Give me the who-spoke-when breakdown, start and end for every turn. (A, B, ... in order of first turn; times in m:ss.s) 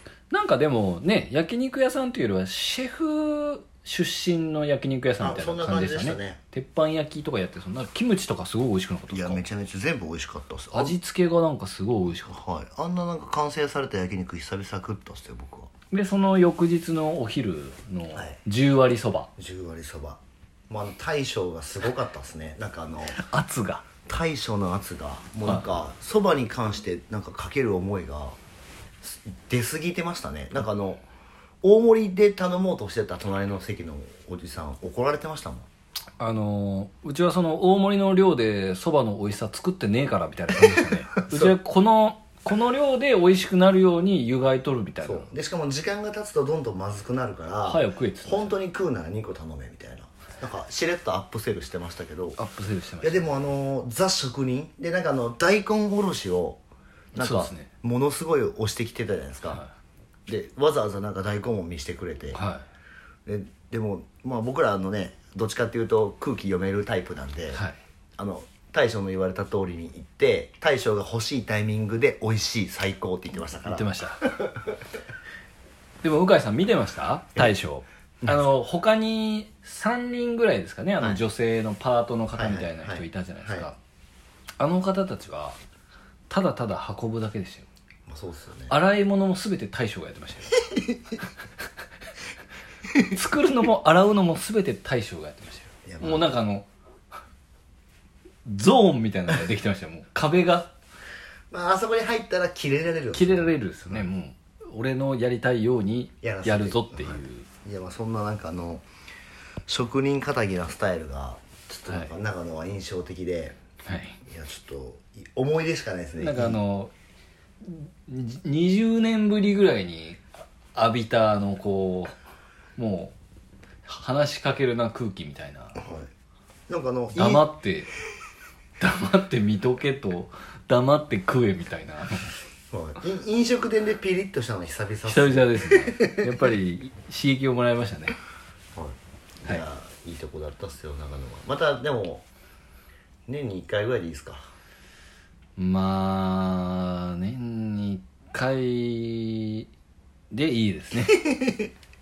0:00.3-0:09.4 A
0:05.2-0:06.4 B
0:09.1-0:10.9 B
0:10.7-0:12.4 A
0:12.2-0:15.7 B
0:15.9-0:19.3 A
0:19.4-0:23.2 B
0:23.1-0:23.8 A
0:24.0-0:28.4 B
0:29.0-0:31.0 B
0:31.6-0:35.7 B
0:36.2-0:45.3 A
0:40.7-0:41.5 B
0:45.0-0:52.4 B
0:47.6-0:48.5 A
0:52.4-0:53.3 A
0:53.0-0:56.6 B
0:57.1-0:59.6 B
0:57.2-0:57.7 A
1:00.3-1:02.4 B
1:02.3-1:02.6 A
1:03.2-1:07.6 B
1:08.2-1:14.8 B
1:13.6-1:14.3 A
1:16.0-1:23.8 A
1:22.3-1:23.7 B
1:24.6-1:25.6 A
1:26.3-1:27.7 A
1:28.1-1:28.7 B
1:28.7-1:30.8 A
1:30.7-1:31.1 B
1:33.0-1:36.7 A
1:35.8-1:36.3 B
1:38.4-1:40.7 A
1:41.5-1:44.0 B
1:43.1-1:47.5 A
1:46.2-1:48.8 B
1:49.7-1:53.6 B
1:53.8-1:54.2 A
1:54.2-1:56.6 B
1:56.2-1:56.9 A
1:57.6-2:02.1 A
2:02.8-2:03.1 A
2:03.8-2:05.8 A
2:05.8-2:06.1 B
2:06.7-2:07.5 B
2:07.1-2:07.9 A
2:08.8-2:12.4 A
2:12.7-2:16.3 B
2:15.0-2:18.2 A
2:18.7-2:22.2 B
2:23.3-2:24.5 B
2:25.6-2:29.7 A
2:30.3-2:31.3 A
2:31.0-2:31.7 B